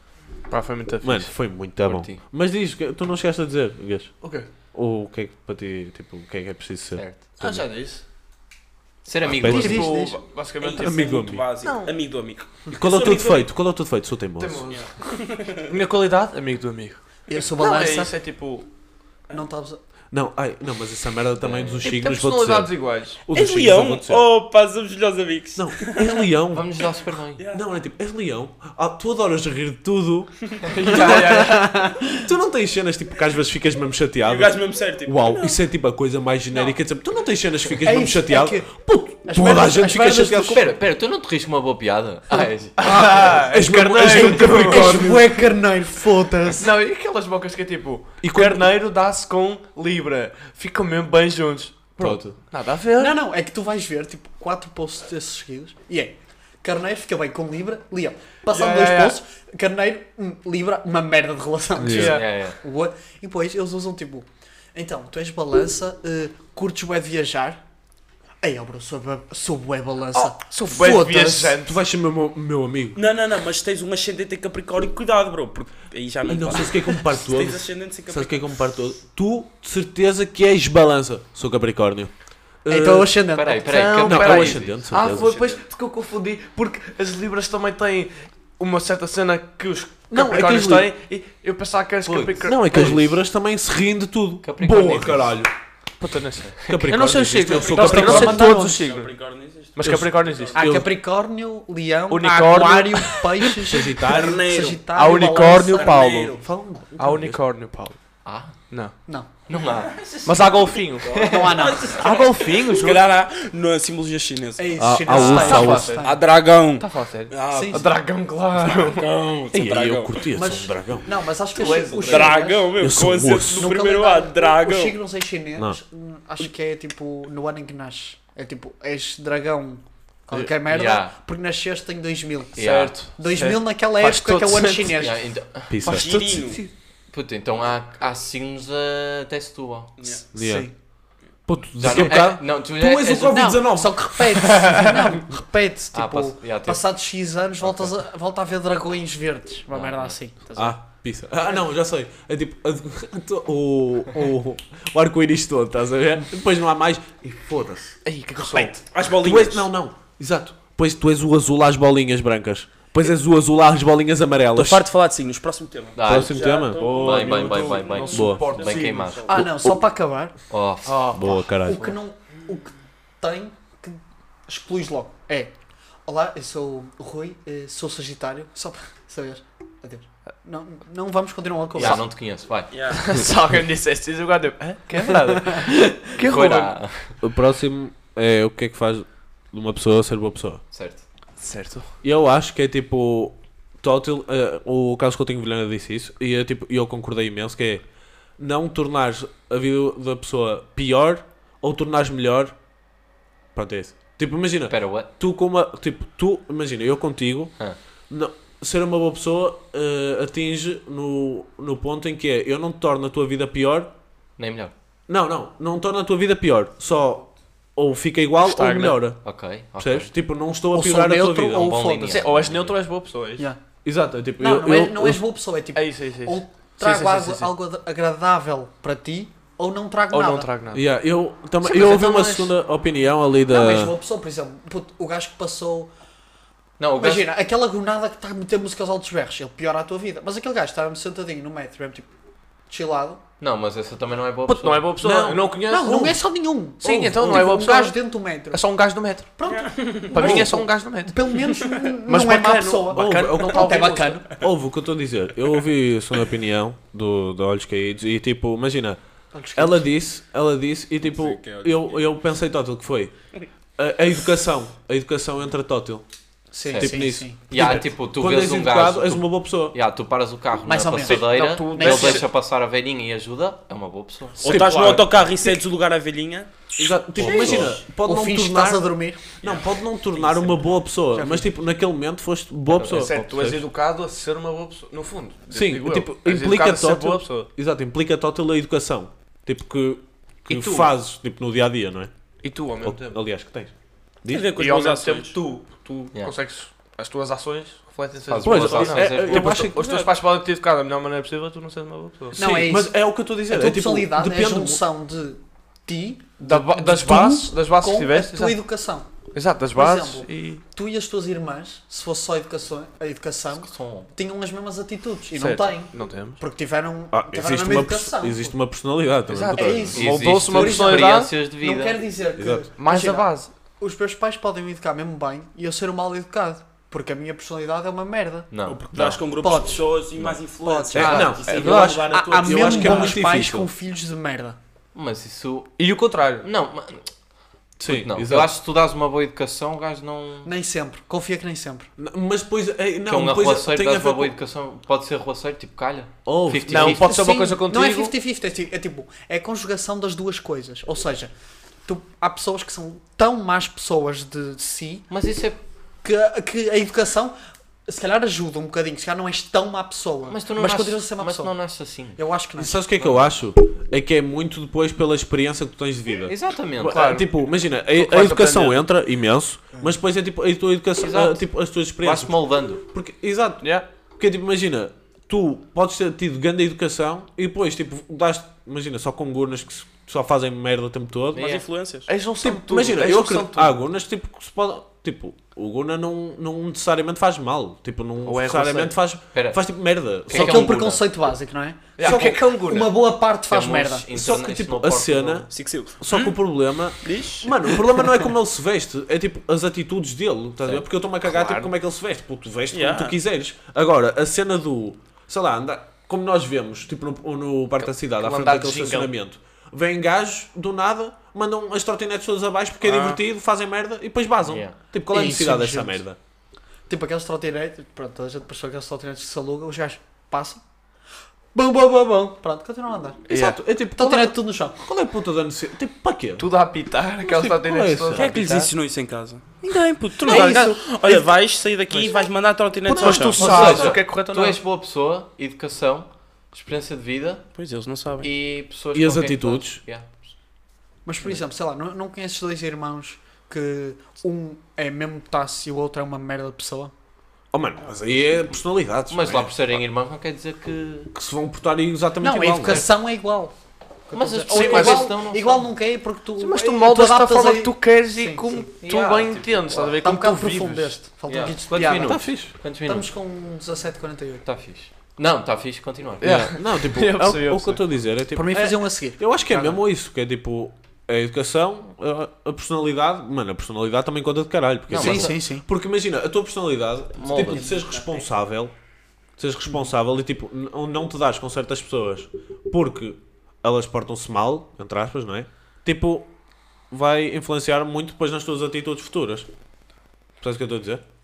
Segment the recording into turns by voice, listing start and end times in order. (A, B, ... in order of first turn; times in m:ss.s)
0:00.5-0:01.3 A
0:01.0-0:07.6 B
0:01.8-0:02.2 C
0:04.2-0:04.5 A
0:06.9-0:07.3 C
0:07.4-0:08.0 A
0:09.0-0:09.9 C
0:09.3-0:10.0 B
0:09.4-0:10.2 D
0:09.4-0:11.9 A
0:10.6-0:13.5 E
0:10.8-0:11.5 B
0:12.7-0:14.7 B
0:14.4-0:14.9 A
0:14.7-0:15.7 E
0:15.6-0:17.0 A
0:17.3-0:18.1 D
0:17.6-0:18.7 A
0:19.3-0:19.8 D
0:20.1-0:24.2 B
0:21.4-0:22.0 C
0:21.8-0:23.2 A
0:23.3-0:26.3 E
0:25.6-0:26.7 B
0:26.5-0:27.4 C
0:27.4-0:27.6 E
0:27.5-0:31.5 B
0:30.7-0:31.8 A
0:30.9-0:32.1 D
0:32.1-0:40.7 B
0:34.2-0:35.6 E
0:37.8-0:38.7 D
0:39.2-0:40.7 D
0:40.5-0:43.2 C
0:42.8-0:45.3 A
0:42.8-0:46.8 D
0:43.5-0:45.3 B
0:46.6-0:53.2 A
0:48.2-0:48.7 B
0:52.0-0:52.4 B
0:53.0-1:07.6 D
0:58.5-0:59.2 A
1:01.8-1:02.2 B
1:01.9-1:02.3 A
1:02.0-1:02.6 C
1:08.4-1:11.6 D
1:10.1-1:11.8 A
1:11.6-1:13.0 B
1:13.0-1:18.5 E
1:16.3-1:22.1 B
1:22.6-1:23.2 B
1:22.7-1:23.8 D
1:23.4-1:24.9 C
1:23.6-1:33.1 A
1:24.1-1:25.4 B
1:25.0-1:25.6 E
1:30.1-1:30.9 B
1:32.0-1:32.4 C
1:32.4-1:35.5 B
1:34.4-1:35.4 C
1:36.0-1:39.1 A
1:36.5-1:36.8 C
1:36.7-1:38.7 B
1:37.5-1:40.6 E
1:37.7-1:38.8 D
1:39.8-1:40.6 A
1:39.8-1:40.9 B
1:40.5-1:46.2 D
1:42.1-1:43.6 A
1:43.6-1:44.4 B
1:44.0-1:46.4 E
1:44.8-1:46.4 A
1:46.4-1:47.4 B
1:47.0-1:48.0 A
1:48.2-1:48.6 C
1:48.7-1:48.9 A
1:49.5-1:50.1 C
1:49.9-1:57.9 E
1:50.2-1:51.2 A
1:51.1-1:51.7 C
1:51.2-1:52.1 D
1:51.9-1:53.0 A
1:54.6-1:56.2 D
1:54.8-1:56.0 B
1:55.1-1:56.2 A
1:56.8-1:59.2 A
1:57.5-1:57.9 D
1:58.6-2:00.2 E
1:59.5-2:01.1 B
2:00.3-2:02.7 D
2:01.6-2:02.4 A
2:01.6-2:05.0 E
2:02.8-2:03.7 B
2:03.6-2:15.2 D
2:10.7-2:11.2 C
2:12.6-2:13.0 C
2:12.6-2:15.0 A
2:15.0-2:15.8 C
2:15.7-2:16.2 B
2:15.8-2:16.7 A
2:15.8-2:16.6 E
2:17.1-2:20.0 C
2:20.0-2:20.2 E
2:20.3-2:20.7 D
2:20.3-2:20.7 B
2:21.5-2:24.8 B
2:21.8-2:23.5 C
2:23.3-2:30.8 D
2:25.9-2:26.8 C
2:29.7-2:30.2 C
2:30.6-2:44.9 B
2:38.0-2:38.8 A
2:38.6-2:39.7 E
2:44.6-2:49.4 E
2:46.0-2:49.4 C
2:46.1-2:48.4 B
2:46.8-2:49.2 A
2:49.3-2:50.3 D
2:49.4-2:49.8 B
2:50.5-2:51.5 C
2:50.8-2:51.3 A
2:51.1-2:52.0 B
2:51.5-2:55.5 D
2:56.1-3:02.0 D
3:01.7-3:02.7 C
3:02.7-3:03.0 E
3:02.9-3:06.8 A
3:05.2-3:05.6 D
3:06.2-3:07.2 C
3:07.2-3:10.6 B
3:10.7-3:11.0 C
3:11.4-3:11.9 A
3:12.0-3:17.8 B
3:18.4-3:22.6 B
3:23.6-3:27.5 B
3:24.7-3:25.1 C
3:28.1-3:33.9 B
3:34.4-3:34.7 C
3:35.1-3:39.2 B
3:38.4-3:39.1 A
3:39.2-3:40.1 C
3:39.8-3:41.8 B
3:40.7-3:42.3 D
3:41.5-3:42.8 C
3:42.1-3:43.5 A
3:43.8-3:45.2 B
3:44.4-3:50.5 D
3:45.8-3:47.5 A
3:50.1-3:50.9 A
3:50.7-3:54.0 B
3:51.6-3:52.5 A
3:53.5-3:55.9 D
3:56.8-3:57.3 C
3:57.0-4:02.1 D
4:02.7-4:03.2 D
4:03.4-4:05.0 C
4:04.5-4:06.2 A
4:05.0-4:05.9 B
4:05.6-4:08.7 D
4:06.8-4:08.0 A
4:06.8-4:07.5 B
4:08.5-4:09.3 A
4:09.4-4:14.4 D
4:09.5-4:10.0 E
4:10.1-4:11.4 A
4:10.2-4:10.5 B
4:12.1-4:14.2 A
4:12.9-4:19.0 B
4:19.3-4:19.9 D
4:19.6-4:23.1 B
4:21.0-4:22.1 E
4:23.8-4:26.0 B
4:26.5-4:27.7 D
4:26.7-4:34.4 C
4:26.7-4:29.8 B
4:30.6-4:32.2 D
4:31.1-4:32.3 A
4:34.4-4:35.1 A
4:34.4-4:36.5 E
4:34.4-4:35.1 B
4:36.8-4:43.7 B
4:37.2-4:37.8 C
4:37.2-4:39.3 D
4:41.1-4:41.7 D
4:42.7-4:43.1 C
4:42.9-4:47.5 A
4:45.5-4:52.1 B
4:50.5-4:50.9 A
4:52.4-4:53.2 A
4:52.8-4:53.7 B
4:54.2-4:54.5 B
4:54.3-4:55.4 E
4:54.6-5:02.6 A
4:58.3-4:59.7 C
4:58.4-5:00.1 B
5:02.3-5:04.8 B
5:02.4-5:09.1 D
5:06.4-5:08.6 A
5:09.3-5:10.6 A
5:09.7-5:18.6 D
5:13.6-5:14.1 C
5:15.4-5:16.4 A
5:17.1-5:20.1 B
5:19.3-5:21.3 A
5:19.5-5:29.9 D
5:19.9-5:22.0 C
5:22.4-5:22.7 B
5:22.8-5:23.5 A
5:28.5-5:28.8 C
5:28.7-5:29.2 B
5:28.8-5:33.2 E
5:30.6-5:34.6 D
5:30.9-5:33.7 B
5:31.0-5:31.3 C
5:34.9-5:37.1 C
5:35.8-5:36.5 A
5:37.8-5:38.5 B
5:37.8-5:40.5 C
5:40.4-5:41.9 D
5:42.0-5:44.4 B
5:43.1-5:47.2 C
5:46.2-5:47.1 B
5:46.7-5:48.1 A
5:46.9-5:51.3 D
5:51.8-5:55.1 D
5:55.1-5:55.6 C
5:56.0-5:57.3 D
5:57.9-6:01.5 D
6:00.3-6:02.2 C
6:02.2-6:02.8 D
6:02.6-6:12.4 B
6:06.3-6:07.1 C
6:06.9-6:08.9 A
6:11.0-6:12.8 C
6:12.9-6:21.5 B
6:21.3-6:21.6 C
6:21.4-6:22.1 E
6:22.1-6:23.8 A
6:22.4-6:30.8 B
6:28.2-6:29.0 A
6:29.3-6:29.6 C
6:30.2-6:31.0 C
6:30.3-6:34.1 D
6:32.0-6:32.9 A
6:32.0-6:32.4 B
6:33.5-6:35.5 C
6:34.1-6:56.2 B
6:35.5-6:36.4 E
6:37.0-6:38.1 E
6:41.2-6:41.7 A
6:42.7-6:43.2 E
6:48.1-6:49.1 A
6:52.8-6:53.2 E
6:54.4-6:54.8 C
6:55.1-6:56.0 D
6:56.9-7:00.6 D
7:01.5-7:04.8 D
7:03.3-7:03.6 A
7:03.3-7:06.5 B
7:06.4-7:08.7 A
7:07.2-7:08.4 B
7:08.1-7:13.6 E
7:10.2-7:11.2 D
7:10.3-7:10.7 A
7:12.8-7:14.0 B
7:13.0-7:14.6 A
7:13.4-7:17.5 C
7:17.6-7:18.3 E
7:18.2-7:20.2 C
7:18.9-7:19.8 B
7:21.0-7:26.9 D
7:27.5-7:29.8 B
7:29.1-7:31.1 C
7:31.1-7:32.9 B
7:32.2-7:33.5 D
7:34.1-7:38.6 D
7:34.1-7:35.7 C
7:34.5-7:35.1 A
7:36.4-7:41.0 A
7:38.8-7:40.0 C
7:40.0-7:42.3 D
7:41.3-7:43.1 C
7:41.8-7:42.5 B
7:42.8-7:44.4 D
7:44.4-7:46.6 C
7:46.2-7:47.8 A
7:46.2-7:58.7 B
7:48.3-7:49.8 D
7:54.9-7:55.4 C
7:55.0-7:55.7 D
7:57.1-7:57.7 C
7:57.3-7:57.7 D
7:57.6-7:58.3 E
7:59.4-8:06.3 B
8:06.9-8:09.5 B
8:10.4-8:11.0 B